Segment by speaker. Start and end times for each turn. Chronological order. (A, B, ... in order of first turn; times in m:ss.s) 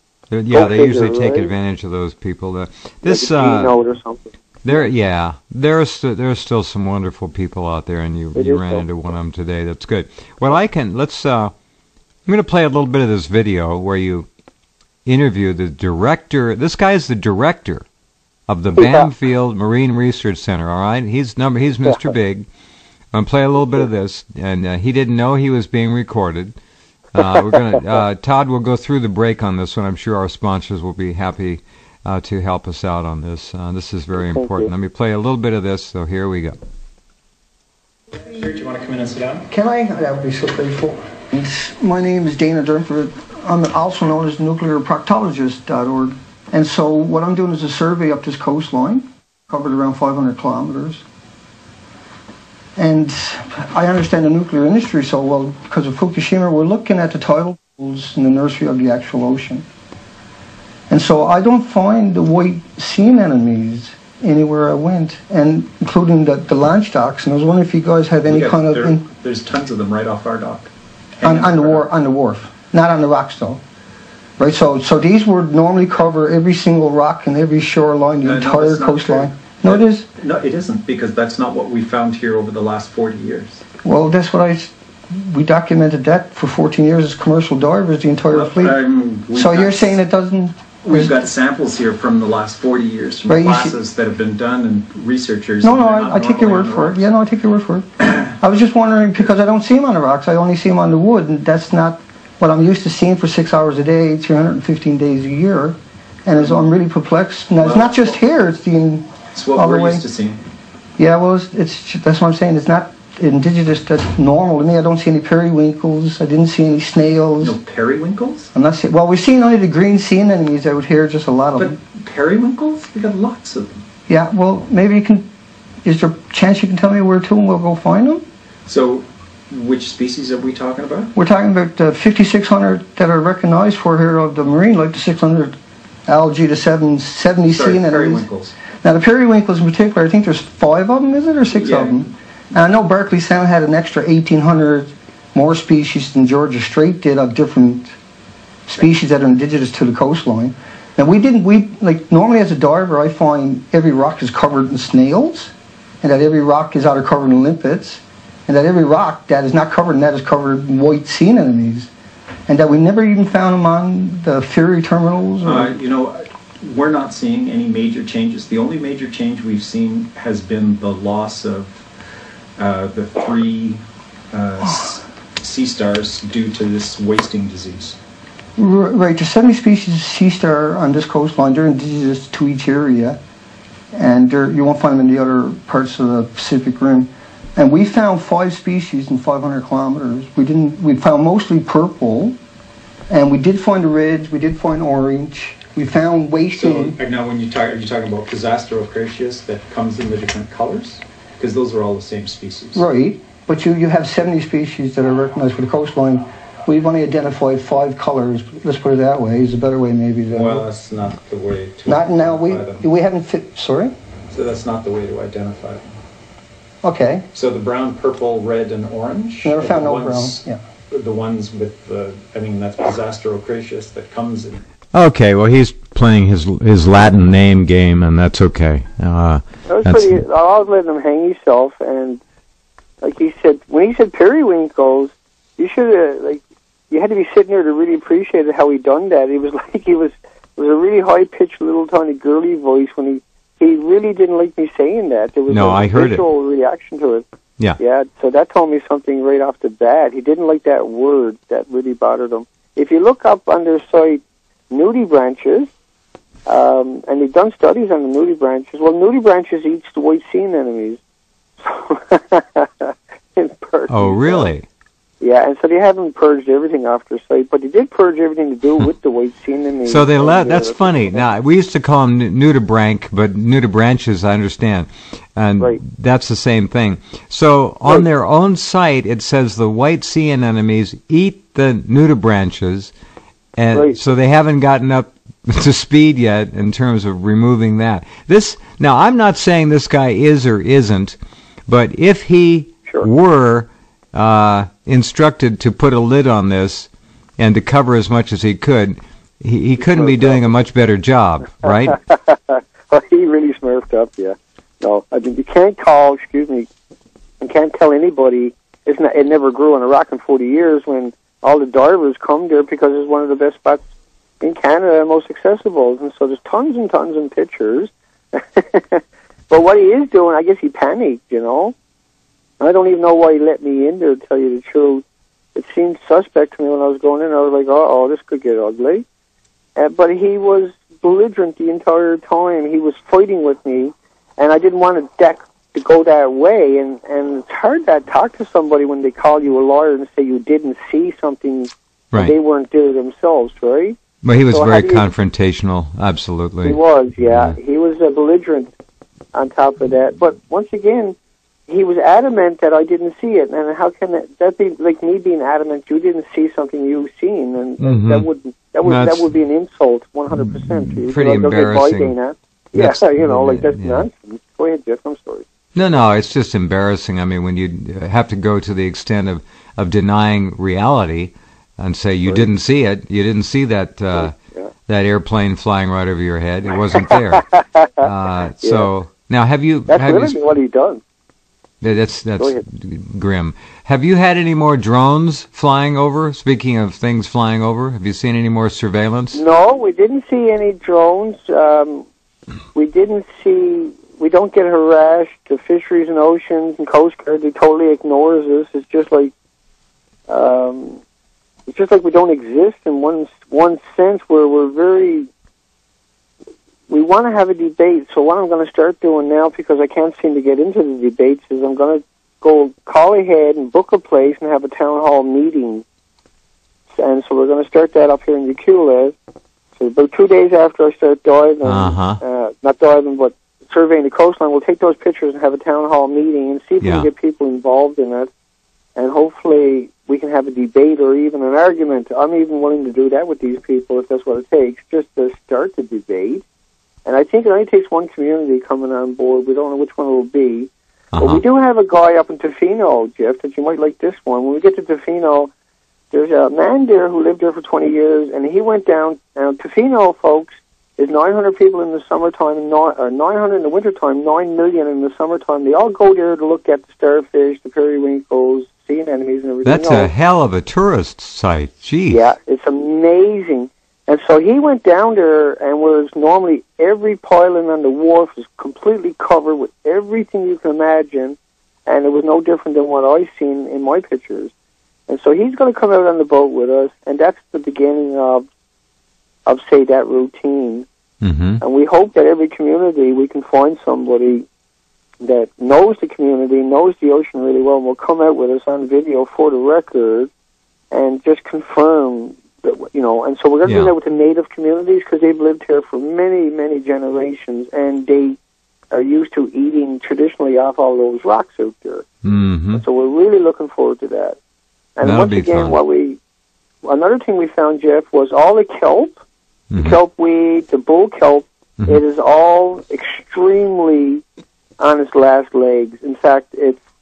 0:00.3-0:03.7 A
0:00.5-0:01.5 B
0:03.0-0:04.9 B
0:04.6-0:11.5 A
0:08.4-0:08.9 B
0:12.3-0:14.3 A
0:15.0-0:17.8 A
0:18.5-0:22.5 A
0:18.8-0:19.1 B
0:23.1-0:26.6 A
0:23.6-0:23.9 B
0:27.1-0:36.6 A
0:27.2-0:27.6 B
0:34.2-0:34.7 B
0:38.2-0:39.4 C
0:39.5-0:51.0 D
0:52.8-0:59.6 D
1:00.9-1:09.1 D
1:08.3-1:11.9 C
1:11.2-1:13.6 D
1:14.4-1:20.1 D
1:18.2-1:23.6 C
1:23.8-1:28.8 D
1:28.3-1:30.0 C
1:29.3-1:31.2 D
1:30.8-1:37.1 C
1:33.3-1:33.8 D
1:35.6-1:50.0 D
1:46.3-1:46.7 C
1:47.6-1:48.2 C
1:49.3-1:50.4 C
1:51.0-1:57.6 D
1:57.4-1:58.5 C
1:58.5-2:01.8 D
2:01.6-2:03.8 C
2:04.1-2:05.3 D
2:05.8-2:08.2 D
2:08.7-2:11.1 C
2:11.2-2:15.6 D
2:16.1-2:18.3 D
2:17.4-2:18.6 C
2:18.8-2:27.9 D
2:21.5-2:22.0 C
2:28.7-2:41.9 D
2:42.5-2:45.7 D
2:45.4-2:51.8 C
2:52.6-2:53.8 C
2:54.3-2:58.0 C
2:58.6-3:03.2 D
3:03.9-3:12.4 D
3:13.1-3:17.0 D
3:16.5-3:22.8 C
3:22.8-3:30.7 D
3:30.3-3:32.8 C
3:31.9-3:33.9 D
3:34.3-3:35.9 C
3:36.8-3:37.3 D
3:37.3-3:44.6 C
3:39.4-3:40.6 D
3:44.9-3:50.2 A
3:49.7-3:52.2 B
3:53.0-4:07.2 B
4:05.5-4:06.3 A
4:07.8-4:15.7 B
4:16.5-4:21.0 B
4:21.6-4:24.5 B
4:23.9-4:24.7 A
4:25.2-4:31.3 B
4:29.9-4:42.9 A
4:43.6-5:02.0 A
4:43.7-4:44.0 B
4:59.8-5:00.4 B
5:01.8-5:06.7 B
5:07.4-5:13.8 B
5:14.4-5:21.7 B
5:22.6-5:25.0 B
5:25.6-5:29.0 B
5:29.8-5:44.0 B
5:44.2-5:47.6 A
5:44.5-5:45.0 B
5:46.6-5:48.7 B
5:49.3-5:51.2 B
5:51.7-6:05.4 B
5:57.8-5:58.3 A
5:58.8-5:59.3 A
6:00.5-6:02.1 A
6:02.8-6:04.1 A
6:05.8-6:14.4 A
6:14.2-6:14.7 B
6:14.9-6:17.5 A
6:16.9-6:18.1 B
6:18.0-6:20.4 A
6:18.6-6:18.9 B
6:19.9-6:21.0 B
6:21.8-6:29.4 A
6:22.4-6:22.6 B
6:29.3-6:32.1 B
6:32.8-6:39.3 B
6:40.3-6:41.0 B
6:41.7-6:45.3 B
6:46.9-6:55.8 B
6:56.9-6:59.2 B
6:59.8-7:08.3 B
7:01.6-7:02.2 A
7:06.8-7:07.1 A
7:09.0-7:16.4 B
7:17.1-7:25.5 B
7:21.1-7:21.4 A
7:26.1-7:40.1 B
7:39.6-7:42.3 A
7:42.1-7:54.5 B
7:55.1-7:58.5 B
7:59.5-8:00.9 B
8:01.2-8:01.6 A
8:01.6-8:04.5 B
8:05.2-8:10.3 B
8:10.9-8:18.4 B
8:13.6-8:13.9 A
8:18.9-8:22.1 B
8:22.2-8:22.8 A
8:22.8-8:24.4 B
8:25.0-8:26.2 B
8:25.0-8:25.8 A
8:26.8-8:29.2 B
8:29.7-8:30.0 A
8:29.8-8:34.2 B
8:34.8-8:36.8 B